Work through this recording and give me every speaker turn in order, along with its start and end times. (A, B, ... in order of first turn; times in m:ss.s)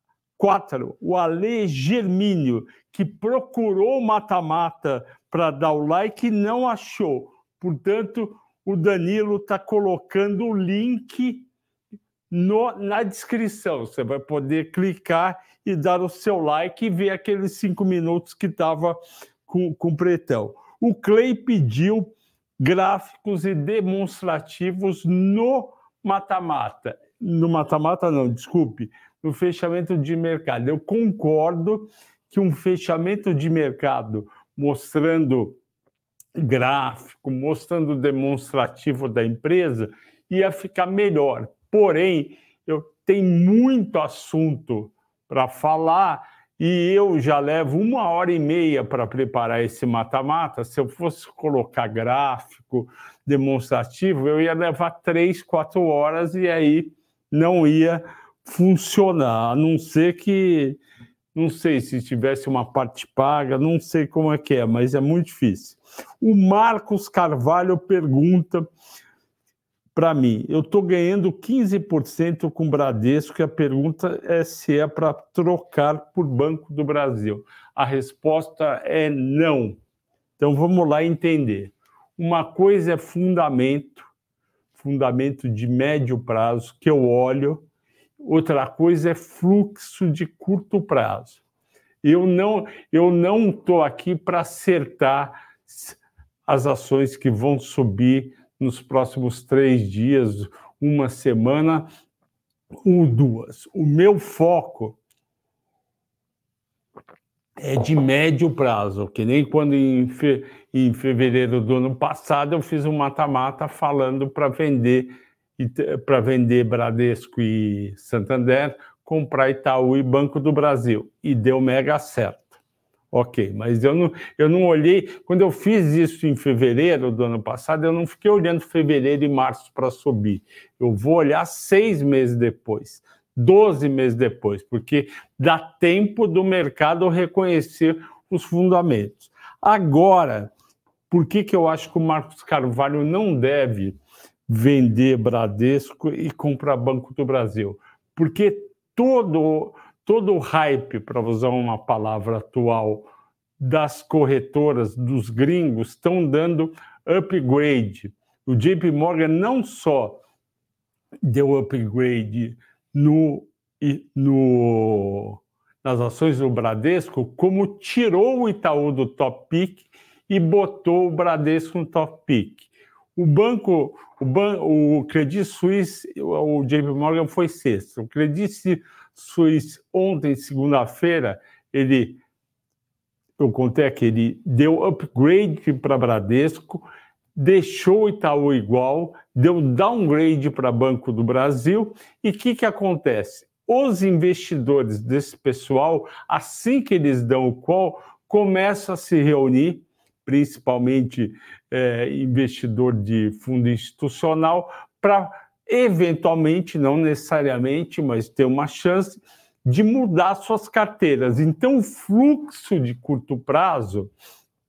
0:00.4-0:11.5 A
0:12.3-0:35.6 A
0:36.3-1:00.8 A
1:01.3-1:08.7 A
1:09.9-1:19.8 A
1:20.4-1:24.1 A
1:24.7-1:27.6 A
1:28.2-1:31.4 A
1:32.0-1:41.9 A
1:42.8-1:45.0 A
1:47.6-2:02.6 A
2:03.1-2:20.5 A
2:21.1-2:33.1 A
2:33.6-2:40.2 A
2:41.2-3:02.2 A
3:03.4-3:34.1 A